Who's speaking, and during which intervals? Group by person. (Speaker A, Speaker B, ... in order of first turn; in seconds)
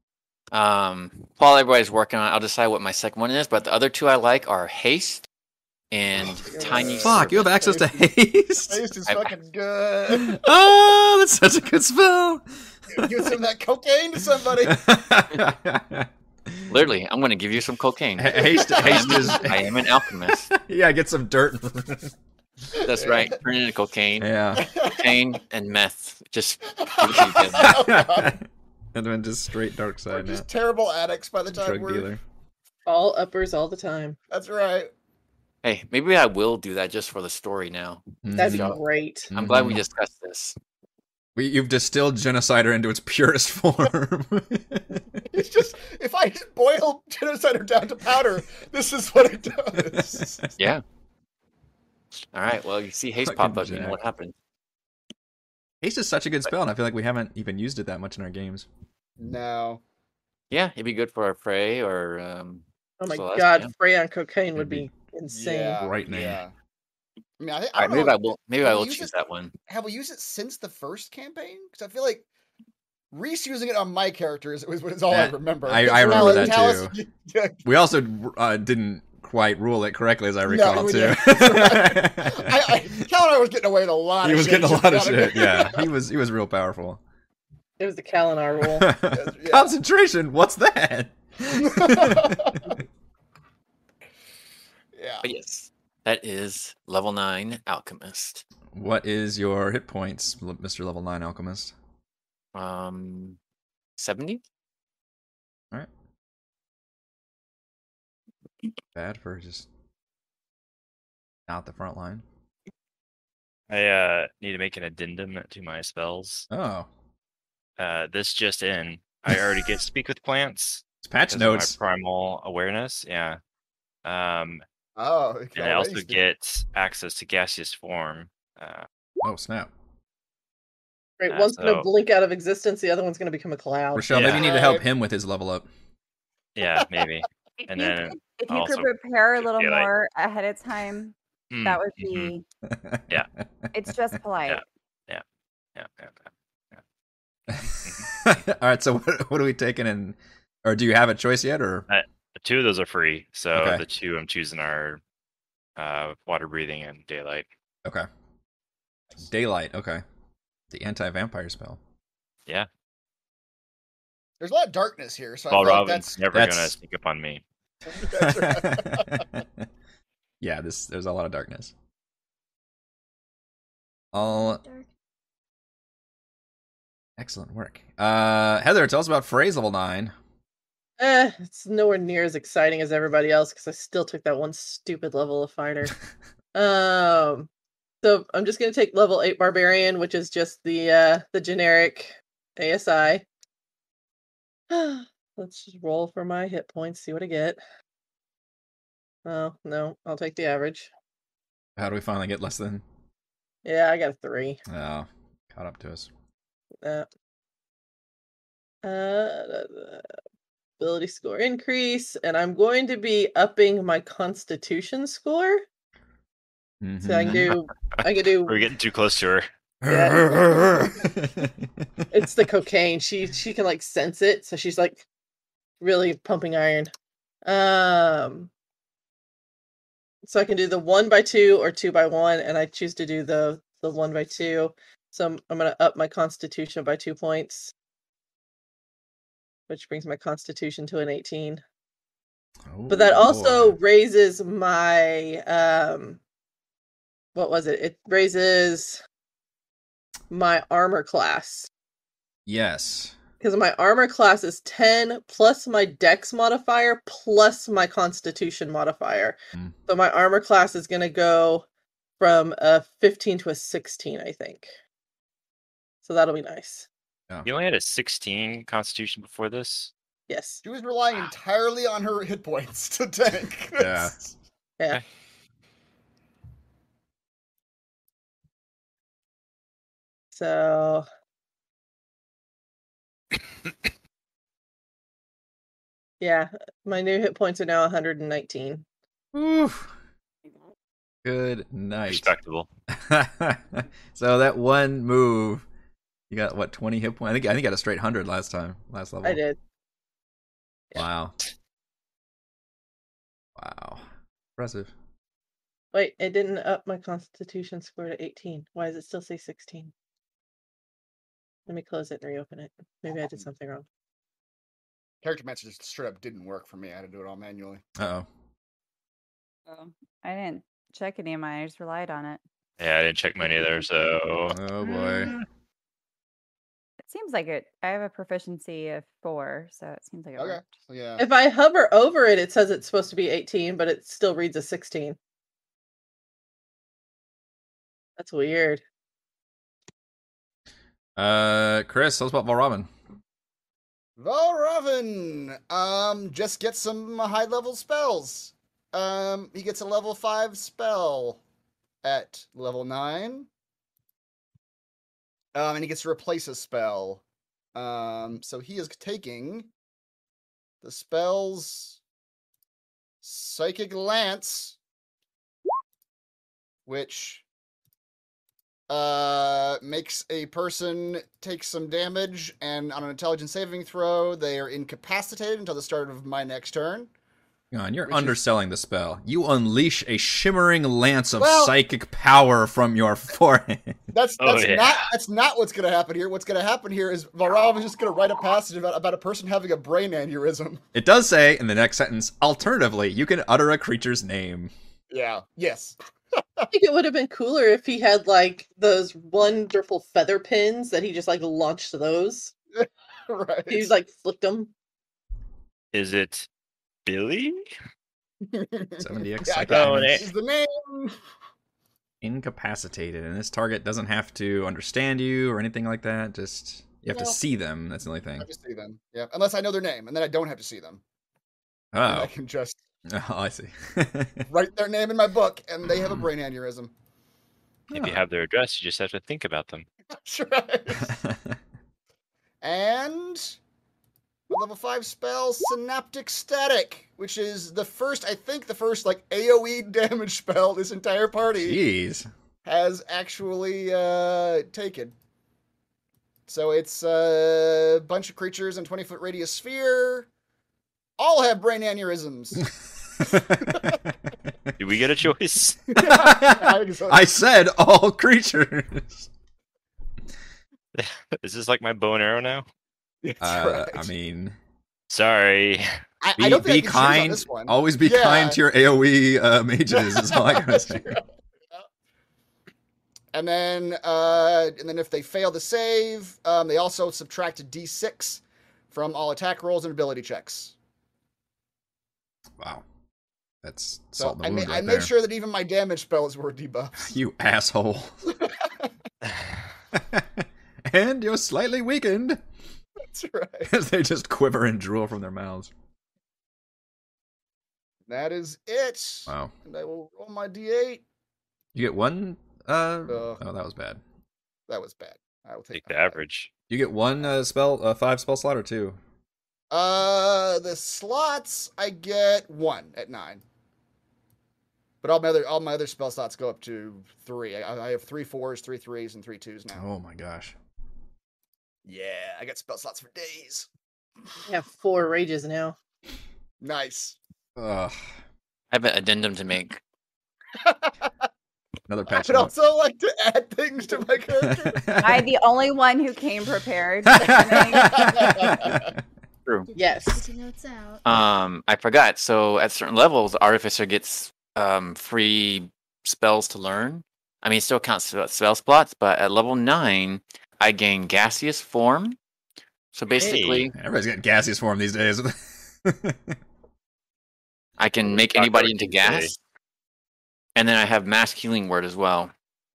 Speaker A: 0.5-5.3, 5.9-7.5, 9.1-9.3, 16.7-20.5, 22.8-27.8, 35.6-40.6, 50.6-50.8, 52.3-54.3, 60.5-63.7, 67.8-69.5, 95.2-98.5, 102.5-103.4, 104.0-104.4, 528.7-529.8, 541.0-552.2, 552.9-553.7, 557.8-559.4, 560.6-562.3
Speaker B: 6.5-6.9, 32.9-34.2, 38.4-39.3, 63.0-65.8, 87.8-88.9, 131.2-134.1, 181.0-185.9, 186.5-187.5, 188.0-193.2, 194.7-197.6, 199.2-200.9, 203.6-204.6, 208.8-210.1, 210.8-215.7, 217.0-218.7, 219.9-220.8, 222.1-225.0, 225.8-226.9, 227.4-228.5, 230.2-237.7, 239.7-241.6, 242.9-246.2, 247.3-249.0, 250.3-251.7, 253.4-261.6, 262.2-264.7, 266.0-266.9, 270.3-270.6, 280.3-281.1, 286.2-288.8, 299.2-299.6, 305.9-309.9, 311.7-313.9, 331.2-335.2, 338.2-338.8, 396.7-402.5, 403.7-404.7, 524.5-525.8, 539.8-540.3
Speaker C: 6.5-8.1, 8.7-10.4, 12.9-14.8, 18.4-19.4, 22.9-23.4, 24.6-25.2, 26.8-28.4, 30.1-32.1, 34.3-34.9, 45.3-50.4, 59.2-59.8, 65.3-66.5, 67.4-69.1, 69.7-72.3, 73.1-77.7, 80.5-85.9, 89.1-89.8, 91.5-92.7, 94.9-95.3, 125.0-126.2, 134.1-134.9, 164.4-166.2, 167.9-169.2, 270.6-274.3, 315.2-317.8, 330.4-331.3, 344.2-351.4, 352.0-353.5, 355.5-357.2, 357.8-359.7, 360.8-362.0, 363.2-364.8, 366.9-367.4, 368.9-377.1, 378.1-378.4, 381.4-381.8, 384.1-390.8, 395.1-396.7, 402.8-403.9, 408.4-411.2, 417.1-417.4, 418.4-421.0, 422.1-422.8, 424.5-426.9, 430.1-431.1, 432.6-433.6, 434.5-441.8, 442.6-445.1, 446.5-450.3, 451.2-452.6, 453.6-454.0, 455.9-457.3, 463.2-464.1, 466.2-468.6, 469.9-471.9, 473.3-480.8, 484.2-487.1, 488.4-488.9, 493.0-493.7, 498.1-501.0, 503.1-503.4, 504.7-506.2, 509.7-513.4, 515.0-519.8, 521.9-523.7, 526.6-527.2, 530.5-531.1, 532.1-535.2, 537.6-538.9
Speaker D: 7.0-8.8, 10.1-13.1, 14.6-16.7, 18.2-19.8, 20.5-22.1, 24.2-24.7, 27.6-30.5, 31.5-32.2, 38.2-38.8, 39.3-39.8, 41.4-45.2, 49.9-50.5, 53.2-54.0, 55.8-58.7, 64.5-64.9, 65.8-66.4, 75.1-77.0, 77.7-82.9, 84.2-87.0, 88.7-92.7, 98.7-101.7, 109.0-109.7, 111.5-112.2, 116.5-116.9, 121.0-121.8, 129.2-129.7, 133.9-135.7, 142.7-143.1, 147.5-151.9, 153.5-153.8, 159.2-160.0, 160.7-161.8, 166.3-166.8, 168.0-169.4, 170.4-171.7, 174.1-174.6, 177.2-180.1, 201.8-202.8, 204.7-206.1, 216.8-217.5, 219.8-221.8, 242.7-243.8, 252.5-253.1, 273.8-274.1, 289.3-289.9, 291.2-292.3, 292.9-295.6, 296.3-299.4, 300.9-301.4, 303.6-304.0, 304.6-304.9, 318.0-318.3, 324.5-325.3, 341.2-342.9, 377.7-384.0, 390.9-394.7, 409.0-410.2, 412.2-418.5, 421.9-422.3, 423.1-424.5, 427.9-428.2, 431.0-431.6, 441.6-442.3, 453.2-454.0, 455.9-459.3, 463.4-464.6, 466.4-471.1, 483.6-485.1, 487.0-488.3, 489.9-492.4, 493.7-495.7, 499.3-499.5, 501.8-504.0, 506.7-509.0, 519.7-520.5, 527.6-528.0, 531.9-532.5, 534.4-535.2, 537.1-538.9, 553.8-556.4
Speaker E: 113.7-116.5, 117.8-123.4, 124.0-124.6, 125.6-128.9, 131.3-131.9, 134.1-134.6, 136.6-139.9, 141.5-142.3, 144.5-145.2, 145.8-146.8, 147.6-148.3, 151.9-155.0, 155.8-157.5, 165.5-167.4, 217.2-219.5, 267.4-269.9, 292.1-292.7, 322.8-324.6, 384.4-385.0, 405.9-406.5, 407.1-407.7, 409.7-410.3, 427.9-429.9, 454.8-455.8, 460.9-462.6, 465.1-465.9, 505.7-506.5, 553.2-553.7, 558.0-559.3
Speaker F: 137.7-142.4, 143.7-144.6, 319.7-322.4, 324.8-325.3, 327.1-330.7, 535.0-538.5
Speaker G: 174.2-174.9, 539.7-541.0